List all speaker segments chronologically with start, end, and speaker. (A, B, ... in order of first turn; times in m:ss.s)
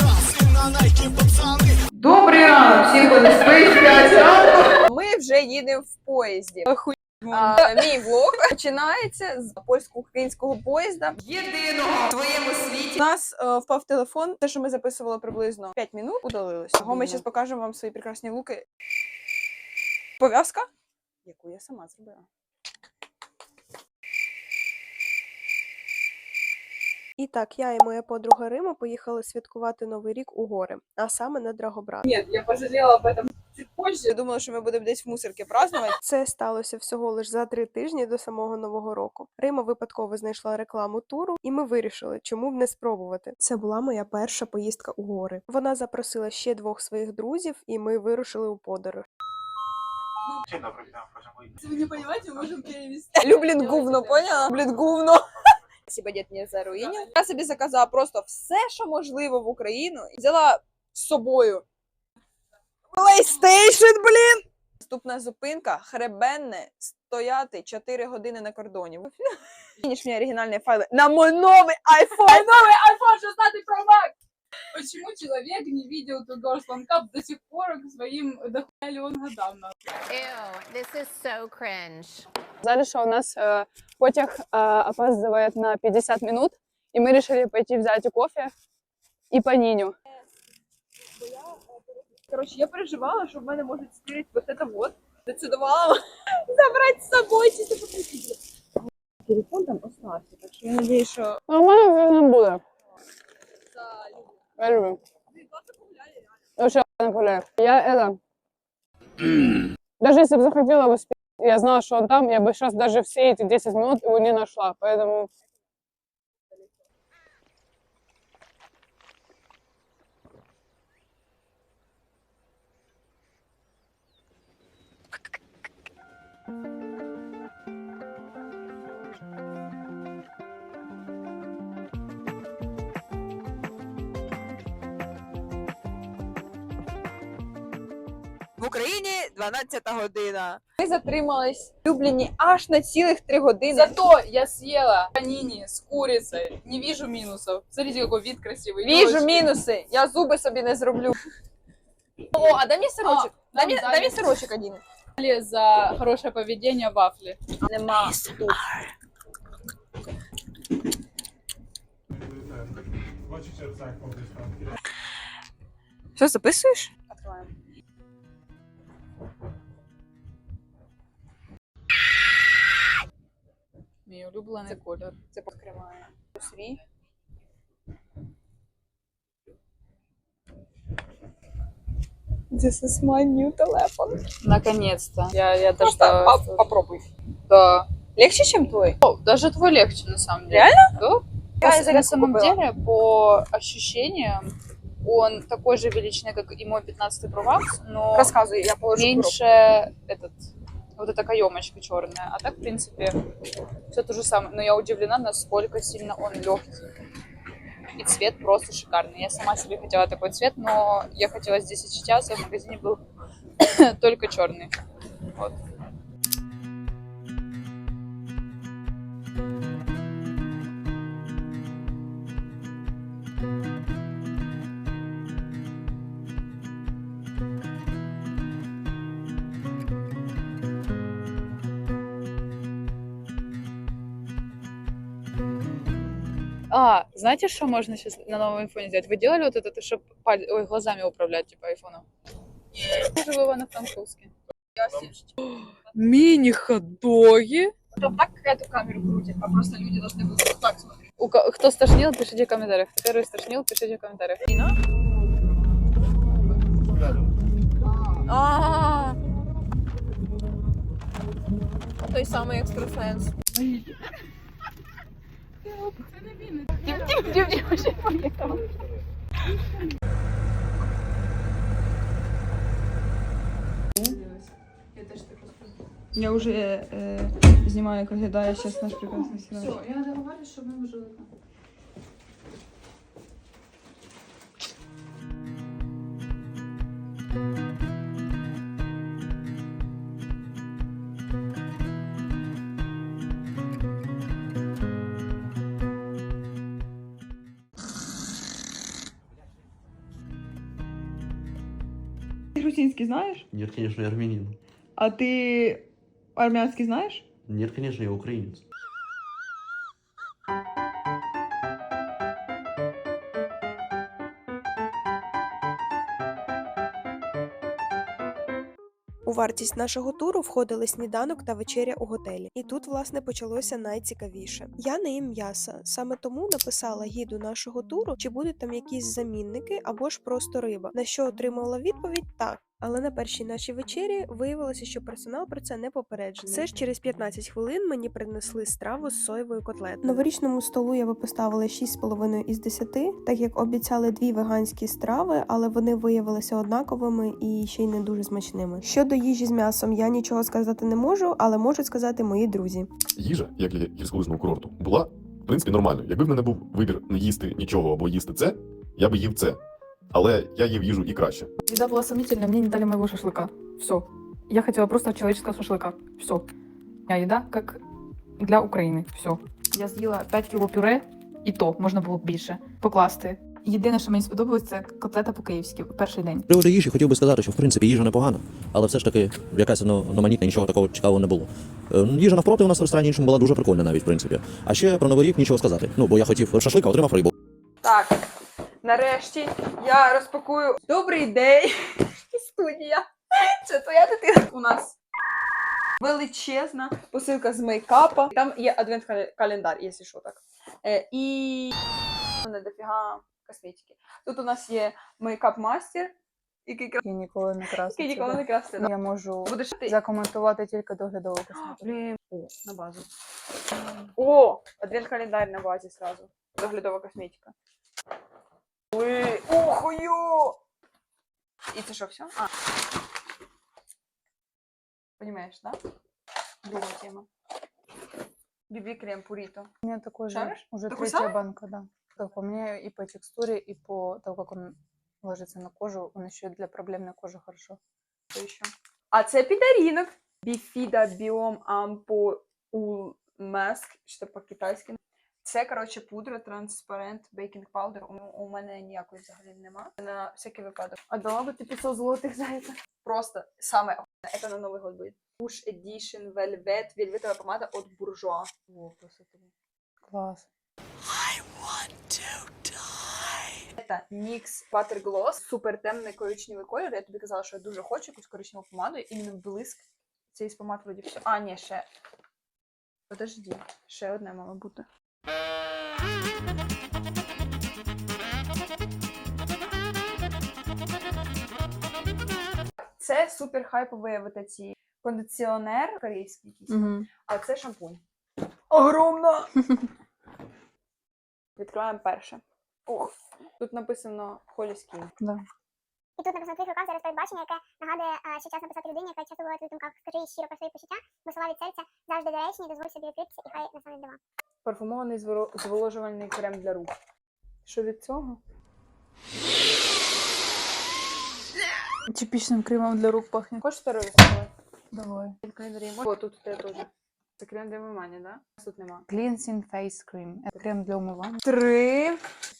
0:02.0-0:18.6 A
0:07.3-0:07.7 B
0:16.8-0:17.2 B
0:20.2-0:20.7 A
0:21.2-0:22.3 A
0:27.2-0:32.0 C
0:32.1-0:34.1 B
0:34.1-0:36.0 A
0:36.0-0:49.0 C
0:51.6-0:54.5 B
0:53.2-0:55.2 A
0:55.8-1:01.6 A
1:02.9-1:09.2 A
1:09.8-1:12.5 A
1:12.1-1:14.1 B
1:14.7-1:19.7 B
1:20.1-1:22.2 D
1:22.6-1:28.5 B
1:29.3-1:29.9 B
1:31.2-1:38.4 A
1:39.2-1:41.4 A
1:41.5-1:42.6 E
1:43.8-1:44.3 A
1:44.7-1:44.9 E
1:45.3-1:45.9 A
1:46.6-1:48.2 E
1:50.0-1:55.2 E
2:18.6-2:23.9 A
2:23.7-2:29.5 B
2:28.8-2:31.2 A
2:32.3-2:34.3 B
2:32.3-2:34.8 A
2:35.2-2:37.4 B
2:37.6-2:38.7 A
2:46.2-2:47.5 A
2:54.0-2:55.2 B
2:54.7-2:56.8 A
3:02.5-3:04.2 A
3:04.4-3:06.6 B
3:05.8-3:07.1 A
3:07.5-3:07.9 B
3:08.2-3:09.0 A
3:09.0-3:18.3 B
3:10.5-3:10.9 A
3:11.6-3:12.6 A
3:18.1-3:19.4 A
3:18.9-3:20.4 B
3:21.0-3:23.2 B
3:23.9-3:26.8 B
3:28.0-3:33.0 B
3:33.6-3:34.7 B
3:56.7-4:02.0 B
4:02.9-4:04.3 B
4:04.8-4:05.3 A
4:05.5-4:07.7 B
4:07.9-4:11.0 A
4:11.2-4:14.4 B
4:14.5-4:14.8 A
4:18.3-4:19.1 A
4:22.1-4:23.3 A
4:26.7-4:28.6 B
4:34.0-4:35.7 B
4:36.1-4:39.8 A
4:38.8-4:41.3 B
5:02.6-5:03.4 A
5:03.5-5:04.6 F
5:05.0-5:07.2 A
5:07.4-5:08.6 F
5:19.2-5:52.9 C
5:53.2-5:59.6 G
6:00.1-6:01.5 G
6:01.7-6:03.8 H
6:04.5-6:06.3 H
6:07.1-6:07.8 H
6:08.4-6:16.5 H
6:16.5-6:27.3 I
6:27.8-6:28.2 A
6:28.8-6:35.0 A
6:36.0-6:41.7 A
6:42.4-6:46.1 A
6:46.7-6:47.0 A
6:47.0-6:52.0 B
6:47.9-6:48.9 A
6:49.4-6:50.0 A
6:51.6-6:53.1 A
6:54.2-6:57.5 A
6:58.9-7:00.6 A
7:01.7-7:02.4 A
7:05.2-7:05.8 A
7:06.6-7:07.3 A
7:08.7-7:09.7 A
7:09.8-7:17.8 B
7:10.3-7:11.4 A
7:18.3-7:39.5 A
7:40.1-7:40.4 B
7:43.8-7:51.8 A
7:53.1-7:54.8 A
8:03.0-8:08.0 A
8:06.7-8:07.1 B
8:08.7-8:09.5 A
8:11.6-8:15.1 A
8:16.2-8:24.2 J
8:24.6-8:26.9 A
8:27.6-8:28.4 A
8:32.1-8:33.6 B
8:33.6-8:34.5 A
8:34.9-8:35.3 B
8:35.4-8:39.0 A
8:39.1-8:41.4 B
8:41.4-8:42.2 A